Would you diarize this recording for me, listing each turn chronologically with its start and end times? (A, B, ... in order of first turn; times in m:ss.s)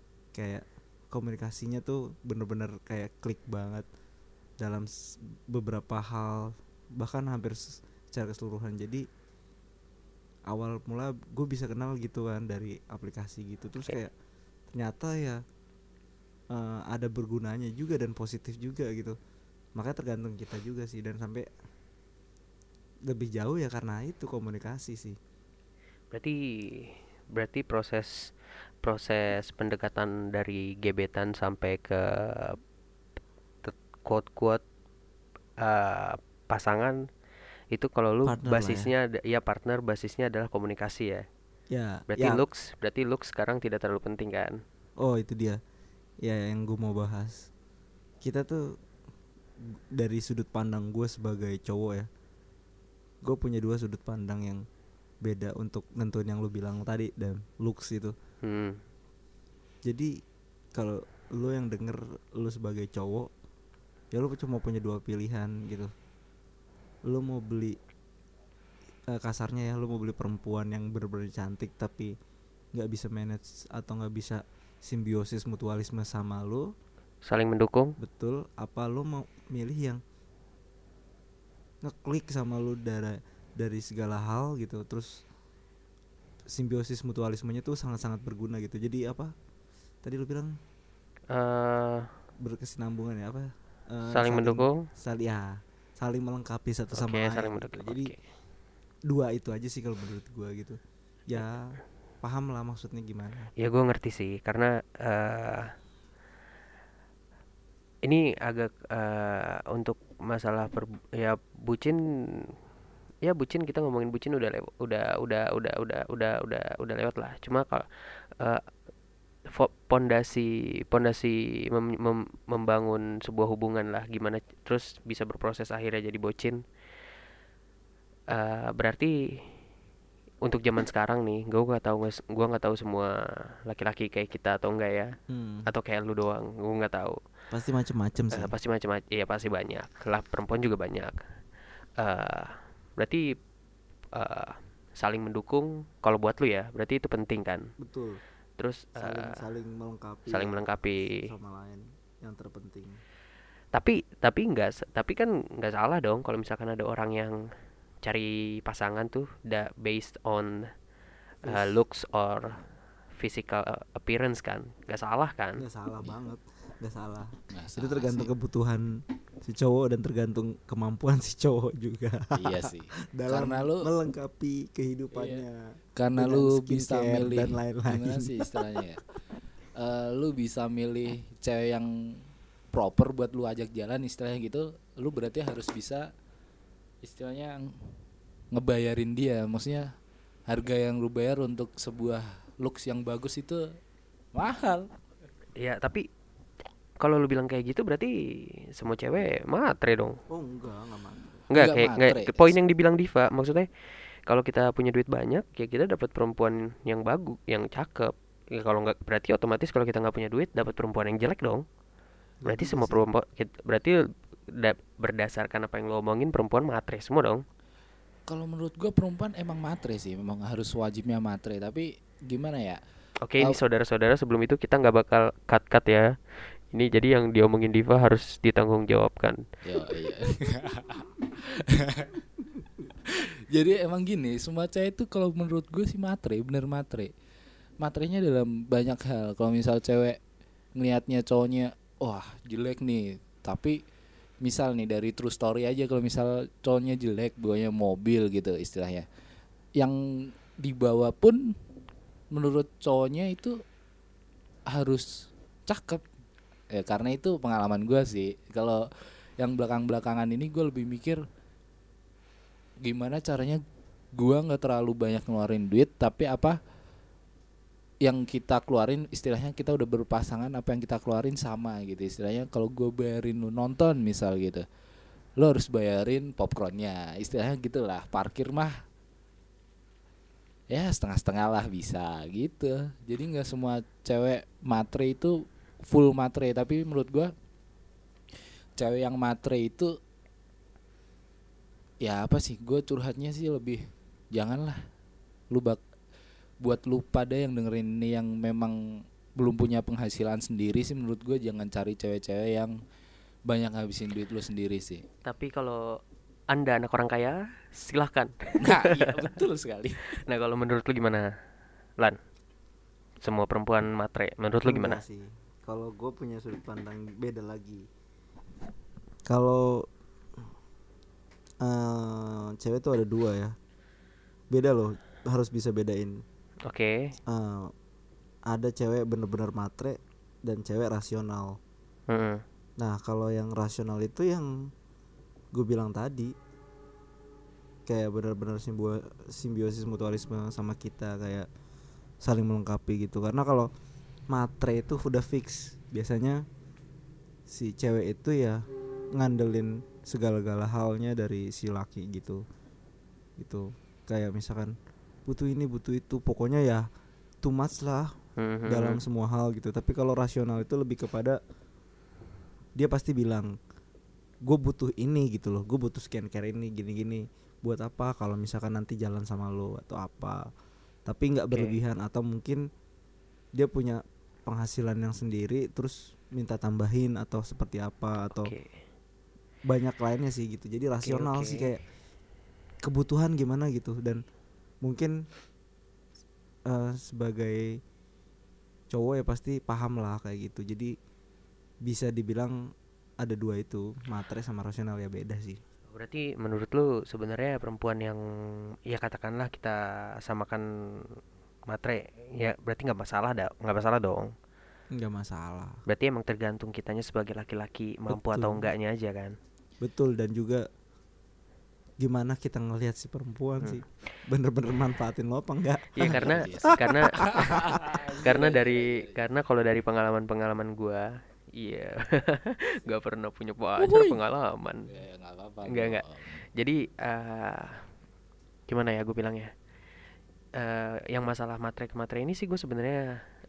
0:00.3-0:03.9 A
0:04.6-0:04.9 A
0:05.5-0:09.0 A
0:10.5-0:14.1 A
0:14.7-0:15.4 A
0:16.5-0:19.2 A
0:19.8-0:21.5 A
0:23.1-0:25.2 A
0:26.1-0:28.3 B
0:28.8-0:32.6 B
0:33.6-0:34.6 B
0:35.6-0:37.0 B
0:37.7-0:41.2 B
0:38.2-0:38.9 A
0:41.7-0:42.4 A
0:42.1-0:44.6 B
0:45.0-0:45.6 A
0:46.2-0:47.5 A
0:48.2-0:48.6 A
0:49.9-0:52.1 A
0:53.2-0:54.6 A
0:55.2-0:58.1 A
0:58.4-0:58.8 B
0:59.8-1:00.1 A
1:00.8-1:03.3 A
1:04.1-1:05.9 A
1:07.1-1:07.8 A
1:09.1-1:12.1 A
1:12.7-1:16.7 A
1:17.2-1:18.0 B
1:18.0-1:20.0 A
1:21.8-1:25.2 A
1:26.5-1:29.3 A
1:30.0-1:30.5 A
1:31.3-1:32.1 B
1:32.4-1:38.1 A
1:34.1-1:34.8 B
1:36.9-1:38.2 B
1:39.1-1:43.5 A
1:43.6-1:45.7 B
1:48.0-1:52.5 B
1:53.2-1:58.6 B
1:59.5-2:06.6 B
2:08.3-2:09.5 B
2:10.4-2:15.1 B
2:15.3-2:15.7 A
2:15.7-2:17.2 B
2:17.5-2:18.5 A
2:18.3-2:21.2 B
2:22.0-2:23.3 B
2:24.1-2:27.7 B
2:27.8-2:28.2 A
2:28.6-2:29.4 B
2:29.0-2:30.6 A
2:30.3-2:31.3 B
2:31.2-2:33.0 A
2:33.7-2:37.4 B
2:38.0-2:40.7 B
2:41.4-2:41.7 A
2:41.4-2:42.6 B
2:43.1-2:45.6 B
2:45.6-2:58.6 A
2:47.5-2:48.3 C
2:52.4-2:53.9 C
2:55.1-2:55.4 C
2:56.0-2:59.0 C
2:59.8-3:01.9 C
3:02.7-3:06.1 C
3:07.0-3:07.9 C
3:08.5-3:09.9 C
3:10.5-3:13.7 C
3:14.3-3:14.9 C
3:15.6-3:16.0 B
3:17.0-3:20.2 B
3:20.3-3:21.4 A
3:21.5-3:23.7 B
3:21.5-3:22.6 C
3:24.2-3:31.6 B
3:32.4-3:33.0 A
3:32.5-3:37.4 B
3:38.3-3:42.8 C
3:43.2-3:46.1 B
3:46.7-3:49.4 B
3:49.6-3:52.2 C
3:53.0-3:57.1 C
3:57.8-4:00.2 C
4:00.8-4:03.8 C
4:04.4-4:09.0 C
4:09.8-4:11.5 C
4:12.3-4:13.6 C
4:14.7-4:15.0 C
4:15.7-4:16.0 C
4:16.7-4:21.2 C
4:22.8-4:23.6 C
4:24.2-4:26.6 C
4:28.0-4:34.6 C
4:35.4-4:38.8 C
4:40.7-4:47.3 C
4:48.8-4:49.9 C
4:52.0-4:53.8 C
4:54.3-4:54.8 C
4:55.5-4:55.8 C
4:56.6-5:02.8 C
5:03.4-5:05.0 C
5:05.2-5:06.0 B
5:06.5-5:09.3 B
5:08.6-5:10.2 C
5:10.2-5:11.3 B
5:13.2-5:15.0 B
5:14.6-5:17.9 A
5:19.3-5:19.9 A
5:21.6-5:23.5 A
5:24.5-5:26.2 A
5:26.7-5:27.1 B
5:27.3-5:27.7 A
5:28.5-5:31.6 A
5:32.1-5:32.4 B
5:32.8-5:34.5 A
5:35.5-5:36.3 A
5:37.8-5:41.5 A
5:42.2-5:43.7 A
5:44.3-5:46.4 A
5:47.5-5:48.6 A
5:49.2-5:52.4 A
5:53.4-5:54.7 A
5:55.2-5:56.8 A
5:57.4-5:58.1 A
5:58.4-5:59.0 B
5:58.7-6:01.4 A
6:02.8-6:03.5 A
6:04.5-6:10.4 A
6:11.1-6:12.6 A
6:11.5-6:11.8 B
6:13.6-6:18.5 A
6:18.3-6:18.7 B
6:19.6-6:21.8 A
6:21.0-6:21.7 B
6:22.8-6:24.2 A
6:24.8-6:25.1 A
6:26.7-6:27.7 A
6:28.9-6:30.9 A
6:31.8-6:32.6 A
6:33.2-6:35.6 A
6:35.9-6:41.2 B
6:41.7-6:44.3 B
6:44.9-6:45.8 A
6:45.9-6:49.4 B
6:48.1-6:48.7 A
6:49.8-6:50.6 A
6:52.0-6:58.0 A
6:56.0-7:04.9 B
6:56.0-6:59.2 C
7:03.8-7:04.2 C
7:04.9-7:06.4 C
7:05.7-7:07.8 B
7:08.7-7:09.5 B
7:10.6-7:13.0 B